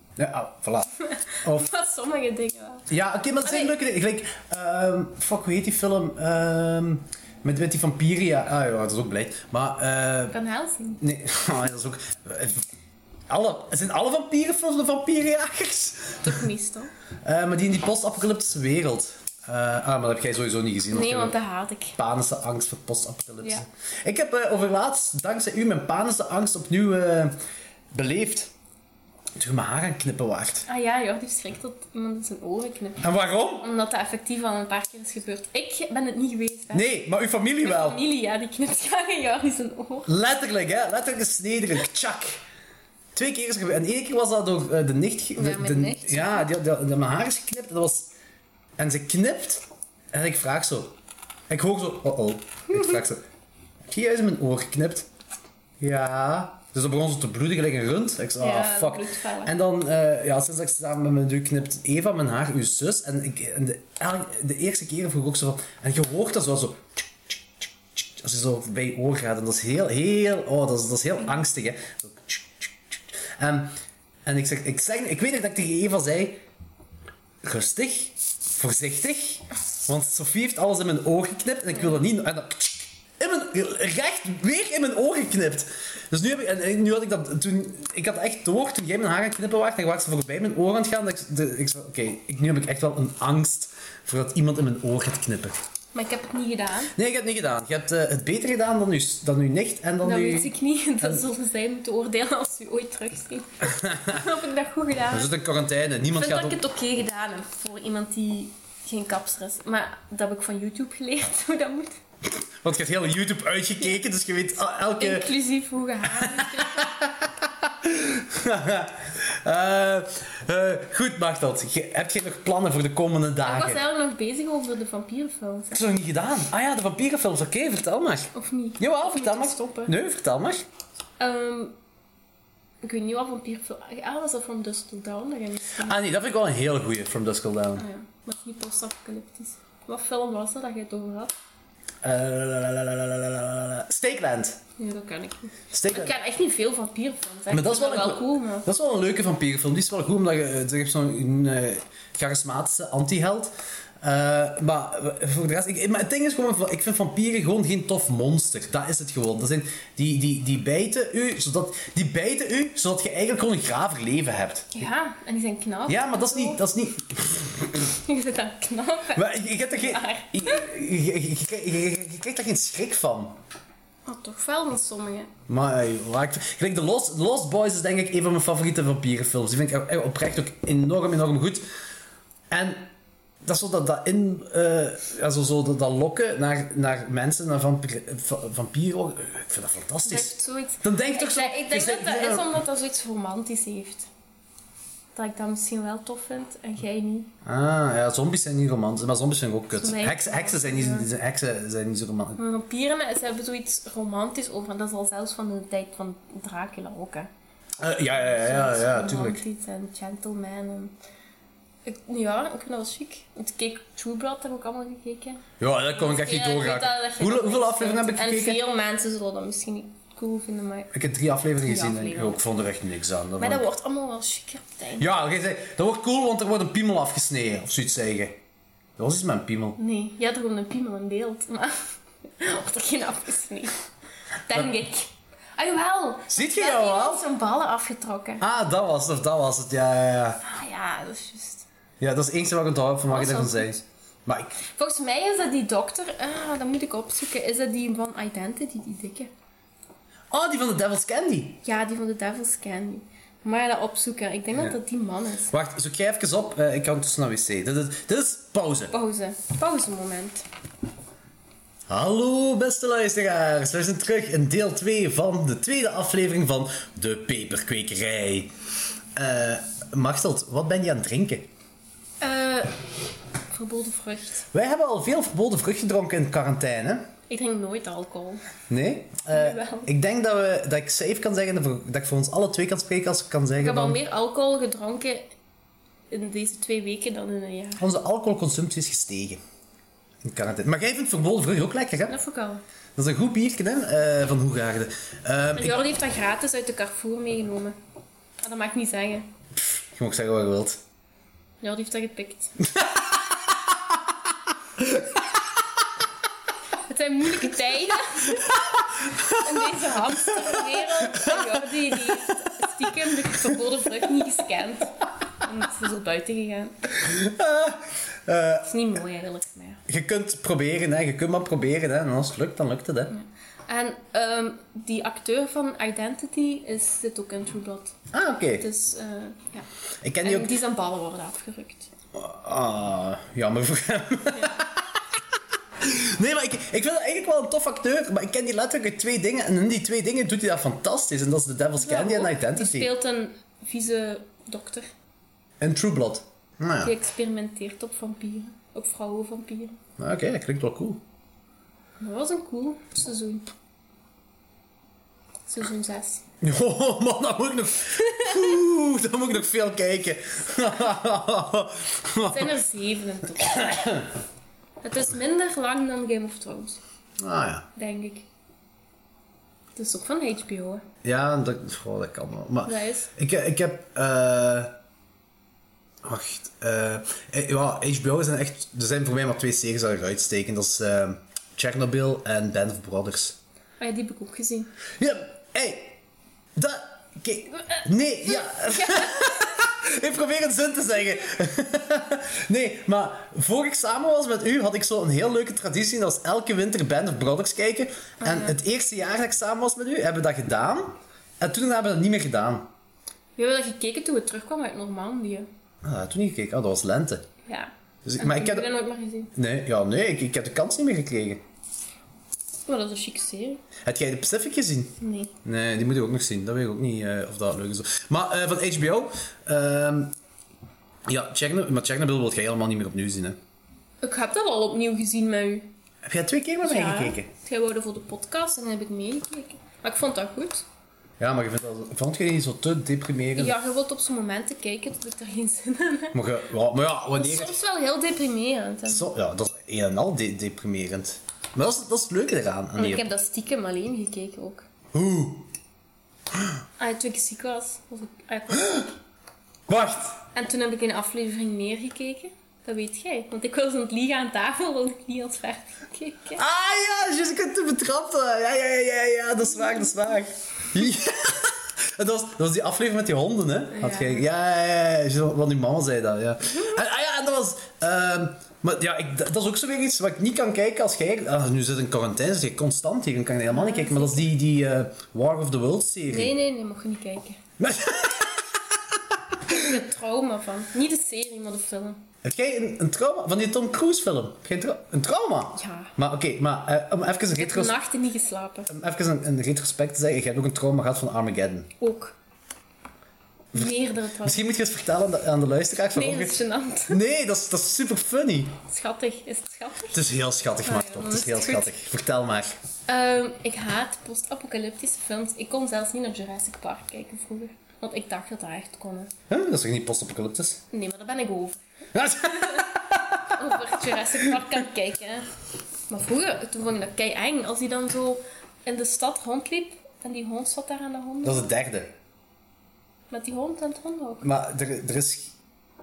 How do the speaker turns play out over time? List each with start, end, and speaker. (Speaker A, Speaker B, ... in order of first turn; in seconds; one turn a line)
Speaker A: 0.2-1.7
Speaker B: 1.0-2.9
Speaker A: 2.9-10.4
Speaker B: 3.4-3.8
Speaker B: 10.3-11.0
Speaker A: 11.0-12.6
Speaker A: 13.3-16.4
Speaker B: 16.2-16.9
Speaker A: 17.2-21.4
Speaker B: 20.9-22.0
Speaker A: 22.0-27.4
Speaker A: 27.9-28.5
Speaker A: 29.4-30.7
Speaker B: 30.7-33.0
Speaker A: 33.0-33.7
Speaker B: 33.6-36.9
Speaker A: 36.7-38.0
Speaker B: 37.6-40.1
Speaker A: 40.1-42.4
Speaker A: 43.1-48.1
Speaker B: 45.4-46.5
Speaker A: 48.8-51.0
Speaker A: 51.5-53.2
Speaker B: 52.7-53.0
Speaker A: 53.9-55.1
Speaker A: 55.8-67.4
Speaker B: 58.4-59.5
Speaker A: 68.0-73.8
Speaker A: 74.3-76.4
Speaker A: 77.4-95.6
Speaker B: 95.9-96.9
Speaker A: 97.0-101.2
Speaker B: 100.0-105.3
Speaker A: 103.7-104.2
Speaker A: 105.1-106.6
Speaker B: 106.1-112.0
Speaker A: 112.6-115.3
Speaker B: 115.0-116.9
Speaker A: 116.1-123.8
Speaker B: 123.5-125.8
Speaker A: 125.7-130.6
Speaker B: 128.3-129.9
Speaker B: 131.2-131.8
Speaker B: 132.8-136.0
Speaker A: 135.8-137.9
Speaker B: 137.8-141.3
Speaker A: 142.0-144.6
Speaker B: 144.8-148.7
Speaker A: 145.7-146.1
Speaker A: 147.5-164.8
Speaker B: 164.7-166.6
Speaker A: 165.9-167.9
Speaker B: 168.0-170.7
Speaker A: 169.1-173.4
Speaker B: 174.1-175.3
Speaker A: 175.5-181.7
Speaker A: 182.5-182.9
Speaker A: 183.4-192.6
Speaker B: 190.0-194.1
Speaker B: 195.2-197.3
Speaker A: 197.4-202.4
Speaker B: 199.7-201.1
Speaker B: 202.4-207.3
Speaker A: 207.8-209.4
Speaker B: 208.1-210.9
Speaker B: 211.8-215.4
Speaker A: 215.6-218.6
Speaker B: 215.9-220.9
Speaker A: 220.9-223.7
Speaker B: 221.6-222.4
Speaker B: 223.4-225.1
Speaker A: 225.0-228.4
Speaker A: 229.0-229.8
Speaker B: 229.8-233.8
Speaker B: 234.5-238.4
Speaker A: 236.3-237.3
Speaker A: 238.4-240.4
Speaker B: 240.4-241.7
Speaker A: 242.0-244.6
Speaker B: 243.1-243.7
Speaker B: 244.7-249.3
Speaker A: 250.3-251.6
Speaker B: 251.6-255.5
Speaker A: 255.5-258.9
Speaker B: 258.9-260.5
Speaker A: 261.9-268.5
Speaker A: 269.2-271.5
Speaker B: 272.2-272.7
Speaker B: 273.5-274.4
Speaker A: 274.5-277.1
Speaker B: 277.3-278.4
Speaker A: 278.7-284.0
Speaker B: 279.3-279.9
Speaker B: 283.6-285.3
Speaker B: 286.1-287.9
Speaker A: 287.8-289.4
Speaker A: 290.2-292.2
Speaker B: 292.1-292.6
Speaker A: 293.0-295.8
Speaker B: 295.6-297.8
Speaker B: 298.4-299.3
Speaker A: 299.6-300.8
Speaker B: 301.6-302.5
Speaker A: 302.6-304.0
Speaker A: 304.8-305.2
Speaker B: 306.9-308.6
Speaker A: 308.4-313.6
Speaker B: 309.4-316.8
Speaker A: 317.0-318.7
Speaker B: 318.6-319.8
Speaker A: 319.9-323.1
Speaker B: 323.1-327.9
Speaker A: 328.1-328.7
Speaker B: 328.6-329.7
Speaker A: 330.0-330.5
Speaker B: 330.2-331.9
Speaker A: 332.1-334.9
Speaker A: 335.8-342.9
Speaker B: 341.8-344.9
Speaker A: 345.6-346.9
Speaker B: 346.8-349.8
Speaker A: 350.0-351.0
Speaker B: 352.0-353.5
Speaker B: 355.5-356.2
Speaker A: 356.4-362.5
Speaker B: 362.3-363.9
Speaker A: 363.4-364.1
Speaker B: 364.8-366.8
Speaker A: 367.2-367.7
Speaker B: 367.8-368.3
Speaker B: 369.8-370.9
Speaker A: 371.0-374.8
Speaker B: 372.6-373.1
Speaker A: 376.0-383.4
Speaker B: 383.8-384.7
Speaker A: 385.0-386.0
Speaker A: 386.6-402.7
Speaker B: 388.2-389.6
Speaker B: 398.2-398.6
Speaker B: 403.4-405.5
Speaker A: 405.8-407.3
Speaker B: 407.4-409.3
Speaker A: 408.1-408.7
Speaker A: 409.3-411.4
Speaker B: 412.7-413.6
Speaker A: 413.9-420.1
Speaker B: 415.0-415.3
Speaker A: 421.1-423.4
Speaker B: 424.0-425.7
Speaker A: 426.0-427.3
Speaker B: 426.6-430.6
Speaker A: 431.2-433.6
Speaker B: 433.4-436.1
Speaker A: 436.1-437.6
Speaker B: 437.2-439.1
Speaker A: 438.9-443.1
Speaker B: 442.8-444.7
Speaker A: 444.9-445.5
Speaker B: 446.8-448.9
Speaker A: 449.7-450.2
Speaker B: 450.4-456.4
Speaker A: 456.4-476.3
Speaker B: 459.4-460.2
Speaker B: 463.7-464.3
Speaker B: 466.5-466.8
Speaker B: 473.5-474.3
Speaker B: 476.1-477.4
Speaker A: 477.6-479.7
Speaker B: 479.5-482.1
Speaker A: 482.2-487.8
Speaker B: 485.6-485.9
Speaker B: 487.3-488.7
Speaker A: 488.7-491.7
Speaker B: 491.8-492.2
Speaker B: 493.5-494.4
Speaker A: 493.5-498.6
Speaker B: 495.9-497.0
Speaker B: 498.6-500.0
Speaker A: 499.9-502.5
Speaker B: 500.6-501.7
Speaker B: 502.9-509.1
Speaker A: 509.3-510.6
Speaker B: 510.7-511.6
Speaker A: 511.9-514.2
Speaker B: 512.4-512.6
Speaker B: 513.3-515.3
Speaker B: 515.9-521.5
Speaker A: 521.2-521.9
Speaker B: 523.1-524.3
Speaker A: 524.2-525.3